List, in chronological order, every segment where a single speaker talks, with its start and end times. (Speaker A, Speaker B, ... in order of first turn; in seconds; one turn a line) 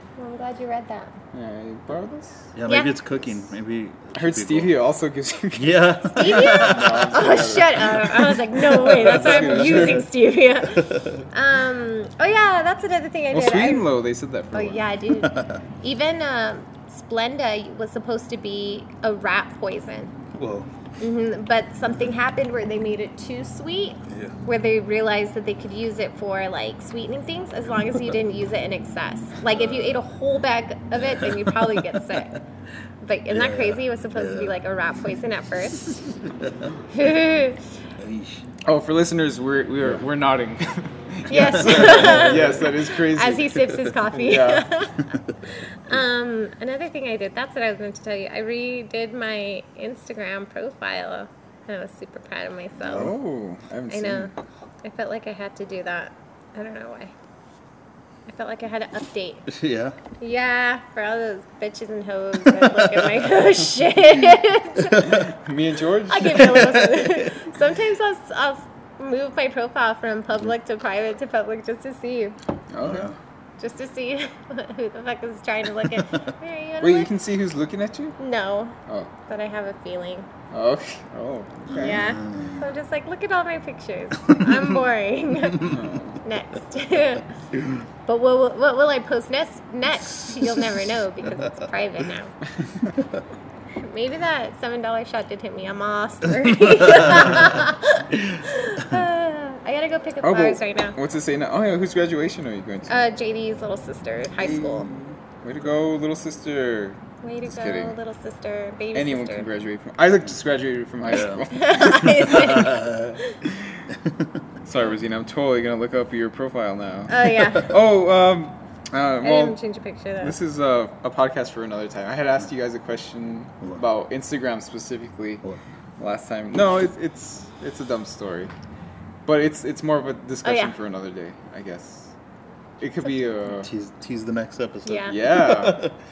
Speaker A: 0.2-1.1
Speaker B: 1.3-2.5
Speaker C: 2.5-4.8
Speaker A: 2.7-2.9
Speaker B: 4.1-8.0
Speaker C: 5.5-7.2
Speaker A: 6.2-13.9
Speaker B: 8.8-10.1
Speaker C: 8.9-10.0
Speaker C: 10.8-11.2
Speaker B: 13.3-14.8
Speaker A: 14.5-20.1
Speaker C: 15.2-15.6
Speaker C: 20.3-20.7
Speaker A: 21.0-32.4
Speaker C: 24.1-24.3
Speaker C: 29.5-30.0
Speaker C: 31.0-32.0
Speaker A: 33.0-36.0
Speaker C: 33.3-34.6
Speaker C: 35.9-36.7
Speaker A: 36.9-37.6
Speaker C: 38.0-38.5
Speaker B: 38.6-44.7
Speaker A: 41.3-45.1
Speaker C: 41.3-42.6
Speaker A: 45.8-53.1
Speaker C: 52.8-53.1
Speaker B: 52.8-54.3
Speaker A: 53.9-54.3
Speaker A: 54.8-57.1
Speaker A: 58.3-59.5
Speaker C: 59.5-60.0
Speaker A: 60.2-65.2
Speaker C: 62.6-63.3
Speaker C: 64.9-65.2
Speaker B: 65.0-66.5
Speaker A: 66.1-72.4
Speaker C: 66.4-67.3
Speaker B: 72.7-73.1
Speaker C: 72.8-73.2
Speaker A: 73.6-77.1
Speaker B: 76.8-78.2
Speaker A: 78.2-78.8
Speaker A: 79.3-80.3
Speaker B: 80.5-82.0
Speaker C: 81.7-82.7
Speaker A: 81.8-87.3
Speaker B: 85.6-86.2
Speaker A: 88.1-92.3
Speaker A: 93.8-101.0
Speaker B: 100.2-103.0
Speaker A: 102.9-104.9
Speaker B: 104.4-108.0
Speaker A: 107.2-109.5
Speaker B: 108.9-112.6
Speaker C: 111.1-111.4
Speaker A: 111.5-113.4
Speaker C: 112.1-113.2
Speaker C: 113.9-114.3
Speaker B: 114.7-119.6
Speaker A: 117.1-117.8
Speaker A: 119.2-120.4
Speaker B: 120.2-125.4
Speaker B: 126.0-128.5
Speaker B: 129.3-132.1
Speaker A: 130.4-130.7
Speaker B: 132.8-133.7
Speaker C: 133.6-135.9
Speaker A: 134.8-135.2
Speaker B: 135.1-135.9